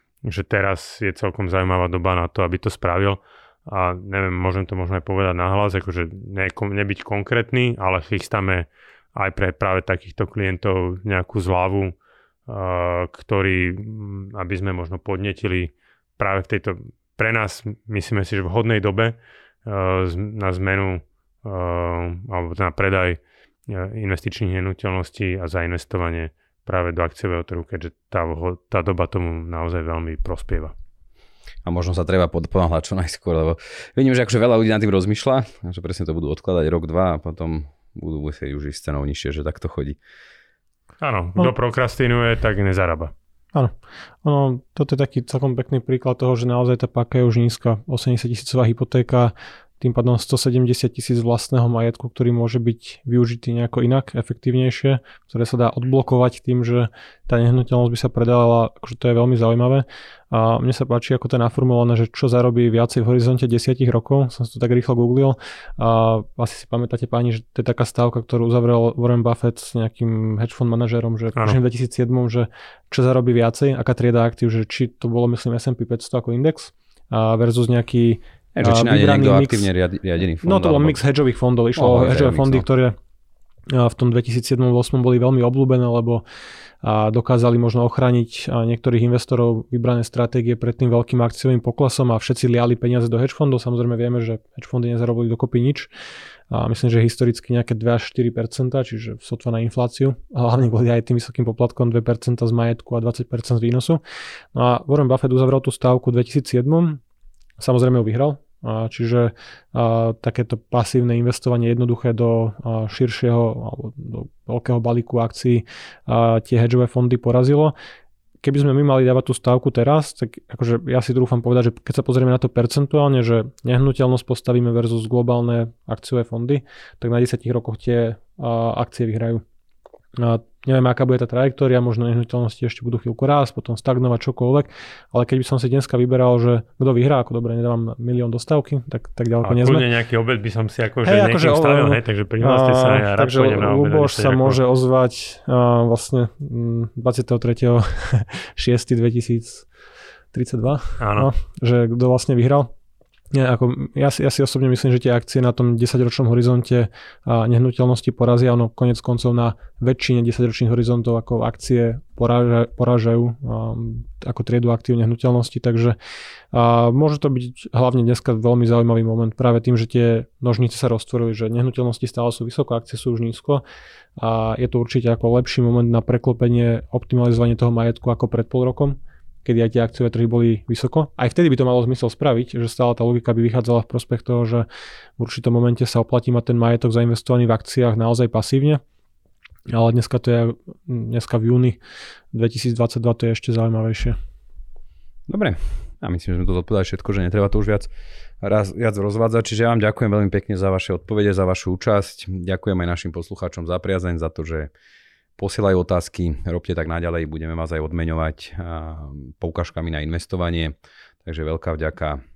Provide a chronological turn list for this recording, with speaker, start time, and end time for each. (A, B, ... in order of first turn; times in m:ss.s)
0:00.2-0:12.0 A
0:12.5-0:30.7 A
0:31.6-0:40.0 B
0:41.0-0:43.1 A
0:43.5-1:19.7 C
1:18.6-1:21.0 B
1:20.4-1:23.0 C
1:21.8-1:22.6 B
1:23.7-1:26.2 C
1:26.8-1:35.9 C
1:36.5-1:44.0 C
1:44.6-1:47.0 C
1:47.6-1:57.8 C
1:58.4-2:09.4 C
2:10.2-2:19.8 C
2:19.4-2:24.6 A
2:21.0-2:29.7 C
2:30.3-2:32.7 C
2:31.0-2:31.3 A
2:33.3-2:46.0 C
2:46.5-2:53.6 C
2:54.2-3:04.7 C
3:05.2-3:08.8 C
3:09.7-3:11.8 C
3:12.3-3:14.2 C
3:15.3-3:17.9 B
3:18.4-3:24.7 B
3:25.4-3:32.2 B